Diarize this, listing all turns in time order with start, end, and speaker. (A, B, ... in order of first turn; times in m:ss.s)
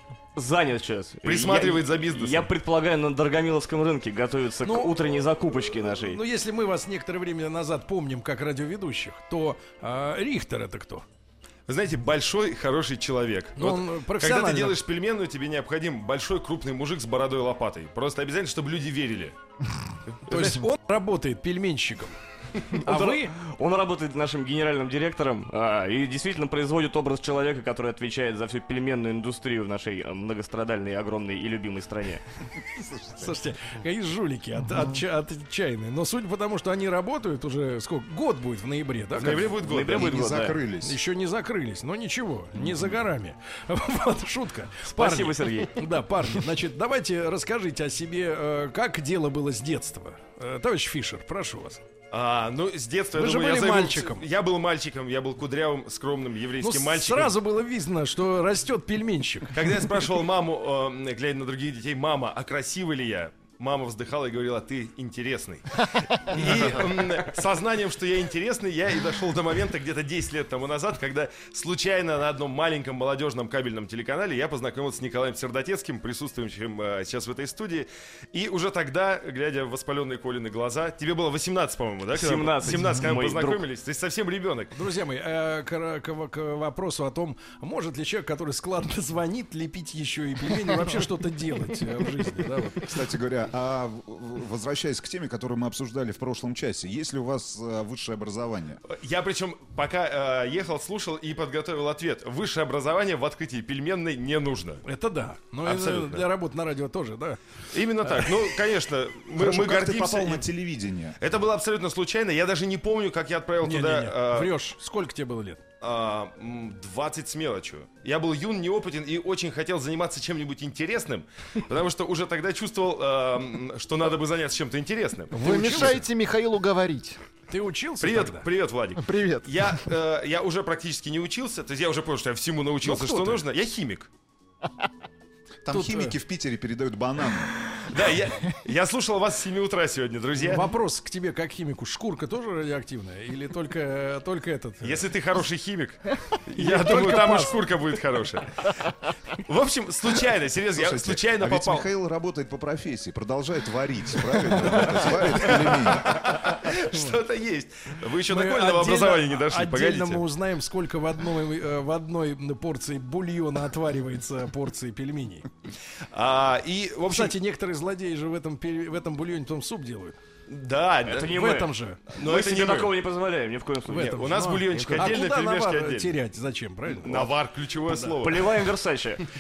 0:00.4-0:06.2 A
0:01.2-0:02.5 B
0:04.6-0:05.0 C
0:06.0-0:11.0 C
0:11.7-0:19.4 B
0:13.6-0:14.8 C
0:20.1-0:20.6 B
0:20.3-0:22.2 C
0:22.8-0:23.4 C
0:22.8-0:32.2 A
0:32.8-0:33.2 D
0:33.2-0:39.4 C
0:39.2-0:40.1 B
0:39.2-0:41.0 D
0:39.2-0:40.6 A
0:40.8-0:51.8 C
0:42.6-0:42.9 D
0:44.9-0:45.8 A
0:52.1-0:57.3 B
0:53.2-0:54.3 C
0:56.6-0:59.7 C
0:59.5-1:24.7 B
1:22.1-1:23.6 A
1:24.7-1:32.9 C
1:32.7-1:38.8 D
1:38.9-1:44.8 B
1:44.8-1:47.4 C
1:45.6-1:46.2 B
1:47.7-1:50.5 B
1:48.0-1:48.3 C
1:49.3-1:51.2 D
1:51.2-1:54.6 B
1:53.6-1:55.6 C
1:55.8-2:06.0 B
2:05.3-2:06.1 C
2:05.3-2:07.2 E
2:07.5-2:08.5 C
2:08.0-2:14.1 B
2:09.0-2:09.7 E
2:12.8-2:13.4 C
2:15.6-2:17.5 D
2:15.7-2:16.2 C
2:17.8-2:20.7 B
2:20.4-2:25.1 C
2:24.8-2:28.7 B
2:26.6-2:27.6 C
2:29.4-2:31.9 B
2:30.8-2:36.2 D
2:34.5-2:40.2 B
2:36.9-2:37.2 C
2:38.2-2:45.5 C
2:46.1-2:47.4 B
2:47.1-2:50.2 C
2:50.5-2:51.3 B
2:51.0-2:55.1 A
2:51.3-2:52.0 C
2:52.1-2:53.0 B
2:53.9-2:58.2 C
2:53.9-2:56.2 B
2:56.9-2:58.7 B
2:58.2-2:59.2 A